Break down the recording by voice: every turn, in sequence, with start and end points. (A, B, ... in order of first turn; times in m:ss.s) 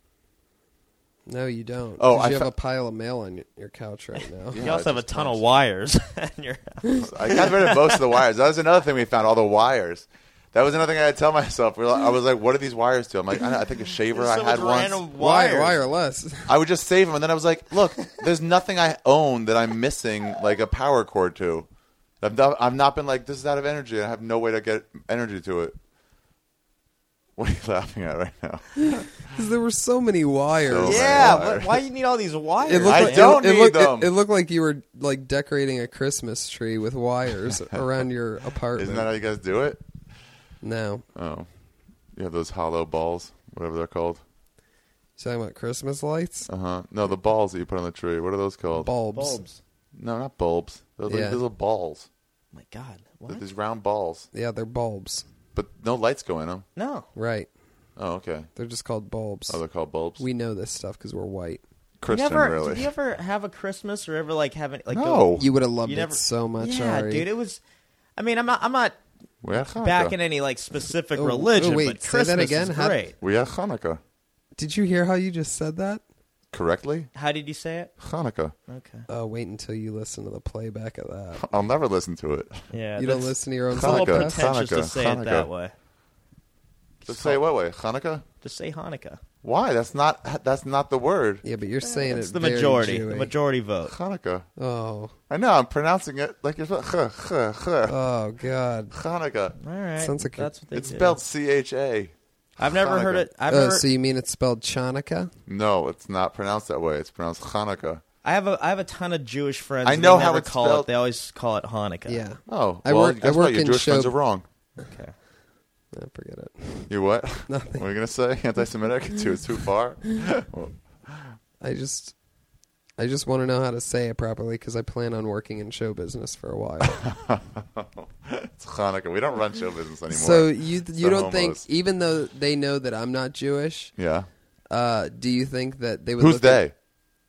0:01.3-0:04.6 A
0:02.0-0:02.5 B
0:04.5-0:05.4 B
0:04.6-0:08.1 C
0:07.0-0:15.0 B
0:14.1-0:15.8 C
0:15.1-0:16.5 A
0:16.5-0:21.7 B
0:22.2-0:25.8 B
0:27.4-0:29.3 B
0:29.2-0:31.4 A
0:30.6-0:31.8 B
0:30.8-0:33.4 C
0:32.6-0:39.1 A
0:32.8-0:34.1 B
0:38.7-0:39.8 B
0:40.6-0:41.0 A
0:41.1-0:41.5 B
0:42.1-0:44.2 B
0:45.2-0:46.5 A
0:46.5-0:48.9 B
0:48.7-0:49.4 A
0:49.1-0:49.6 C
0:49.9-0:52.1 B
0:51.1-0:51.4 A
0:52.5-0:53.4 C
0:53.3-0:54.3 B
0:54.3-0:55.2 A
0:55.5-0:56.6 B
0:56.8-0:57.1 C
0:57.1-0:57.5 A
0:58.0-0:58.5 B
0:58.6-0:59.6 A
0:59.5-1:00.2 B
1:00.2-1:01.6 A
1:02.0-1:02.9 B
1:02.1-1:05.3 C
1:04.9-1:05.5 B
1:05.4-1:07.2 A
1:05.8-1:07.6 C
1:08.2-1:09.0 C
1:09.4-1:10.2 B
1:09.8-1:13.2 C
1:11.2-1:13.0 A
1:13.2-1:14.0 B
1:14.6-1:16.0 A
1:16.5-1:17.1 B
1:17.1-1:17.9 C
1:18.0-1:18.5 B
1:18.7-1:19.1 C
1:19.1-1:21.5 A
1:21.4-1:22.7 B
1:22.7-1:25.7 C
1:23.0-1:24.4 A
1:23.7-1:25.5 B
1:27.0-1:27.4 C
1:27.1-1:28.2 B
1:28.4-1:29.2 C
1:29.4-1:31.4 B
1:31.4-1:33.3 A
1:31.8-1:34.0 C
1:33.8-1:34.4 B
1:34.6-1:35.1 A
1:35.3-1:38.0 B
1:37.9-1:38.9 A
1:38.9-1:39.6 B
1:39.6-1:41.2 C
1:40.0-1:40.5 A
1:40.7-1:43.3 B
1:42.6-1:43.8 C
1:43.5-1:45.3 A
1:45.5-1:48.0 B
1:48.2-1:52.2 C
1:49.8-1:50.9 B
1:52.1-1:54.1 A
1:52.5-1:54.4 B
1:54.8-1:55.1 C
1:55.9-1:56.9 A
1:56.9-2:01.4 B
1:57.5-1:57.8 A
2:01.6-2:02.1 A
2:03.0-2:07.1 A
2:06.9-2:11.6 B
2:10.1-2:13.9 A
2:14.0-2:14.3 B
2:14.7-2:16.6 A
2:16.2-2:16.7 B